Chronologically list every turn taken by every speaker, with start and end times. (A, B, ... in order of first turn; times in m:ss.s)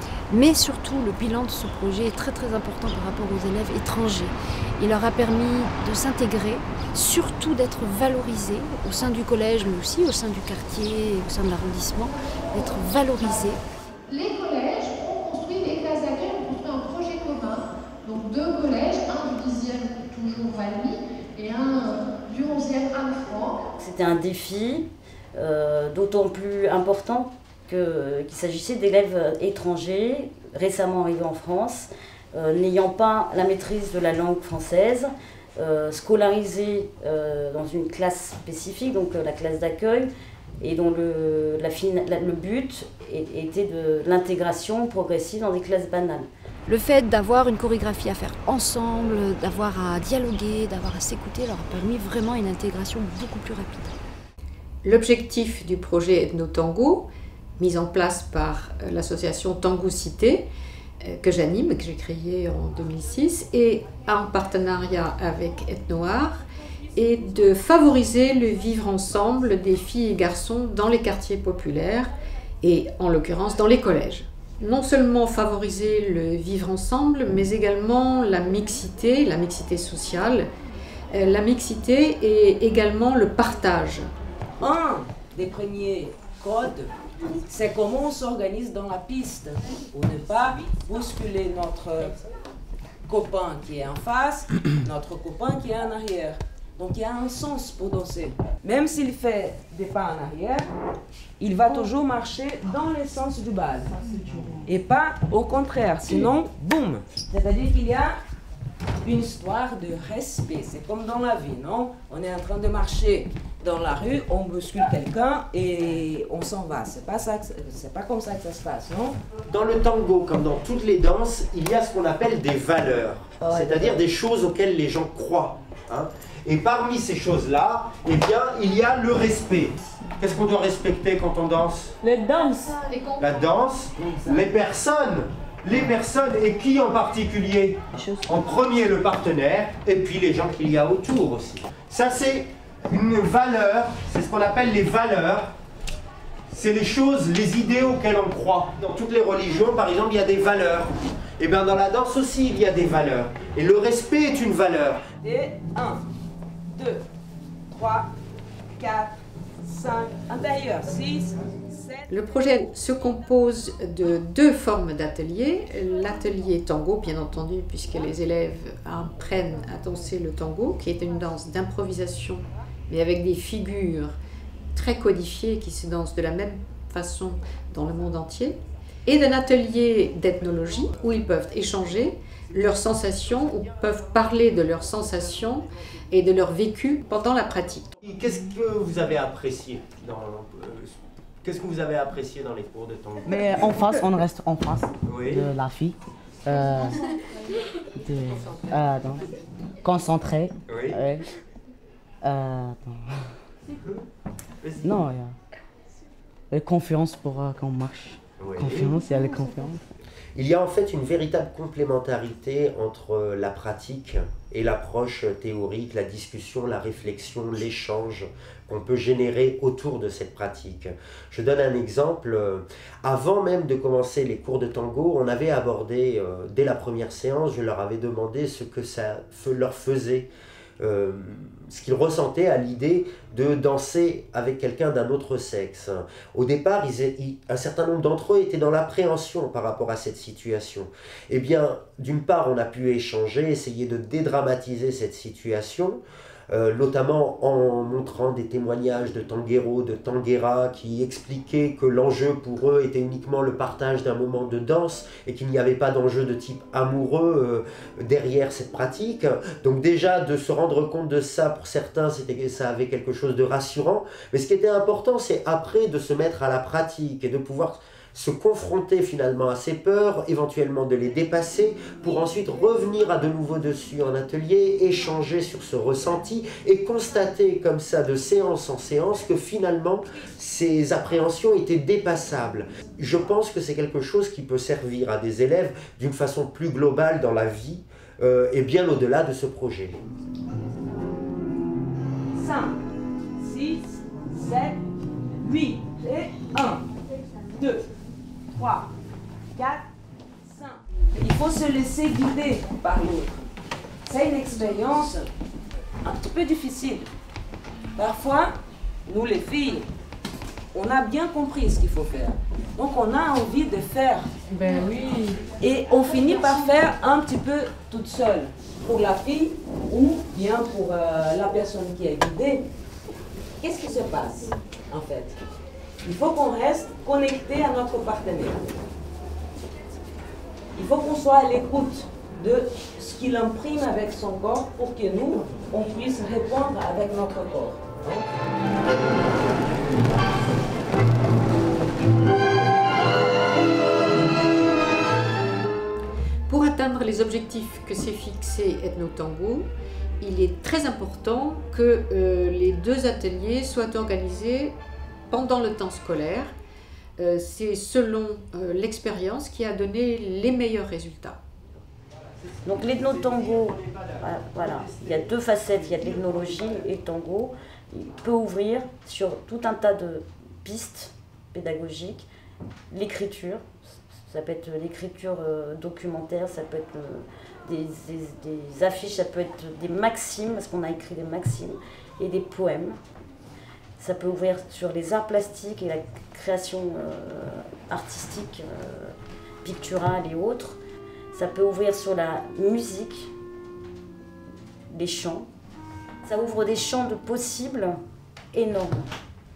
0:00.3-0:13.6 A
0:14.1-0:23.6 B
0:23.8-0:46.3 C
0:46.7-0:54.0 A
0:54.8-1:00.5 D
1:01.0-1:06.4 D
1:07.0-1:12.1 D
1:12.6-1:20.5 D
1:21.1-1:24.1 D
1:24.6-1:26.9 E
1:27.4-1:32.2 E
1:33.1-1:40.7 E
1:41.4-1:44.0 E
1:44.2-1:44.6 F
1:44.6-1:48.1 E
1:49.0-1:59.2 E
1:59.5-2:12.0 G
2:12.0-2:12.7 F
2:12.9-2:13.2 D
2:13.2-2:25.5 G
2:18.0-2:18.3 F
2:26.5-2:35.0 G
2:35.2-2:36.0 E
2:36.7-2:37.0 E
2:37.7-2:38.1 E
2:38.8-2:42.1 E
2:42.1-2:54.2 D
2:54.7-3:07.8 D
3:08.0-3:13.9 G
3:13.3-3:17.0 F
3:15.0-3:15.5 G
3:18.0-3:19.3 F
3:19.8-3:21.2 F
3:20.7-3:21.0 G
3:22.2-3:23.3 F
3:24.6-3:25.0 G
3:24.8-3:25.4 F
3:26.5-3:29.8 F
3:28.4-3:29.0 G
3:30.4-3:50.3 G
3:50.8-4:06.0 G
4:06.5-4:50.0 G
4:52.3-4:52.8 E
4:53.4-4:54.8 E
4:55.4-4:56.8 E
4:57.5-4:57.9 E
4:58.5-4:58.9 E
4:59.5-4:59.8 E
5:00.4-5:03.5 E
5:04.0-5:05.3 E
5:06.0-5:07.1 E
5:08.0-5:08.5 E
5:09.0-5:09.9 E
5:10.7-5:14.3 E
5:15.6-5:22.6 E
5:23.6-5:25.4 E
5:26.0-5:28.7 E
5:30.8-5:38.2 E
5:46.5-5:49.7 D
5:50.2-5:54.8 D
5:55.3-5:56.5 D
5:57.2-6:01.4 D
6:02.6-6:12.3 C
6:02.7-6:06.8 G
6:12.9-6:13.6 C
6:14.3-6:23.0 C
6:24.0-6:30.8 C
6:31.3-6:33.3 C
6:34.9-6:35.5 C
6:36.2-6:38.0 C
6:38.5-6:39.1 C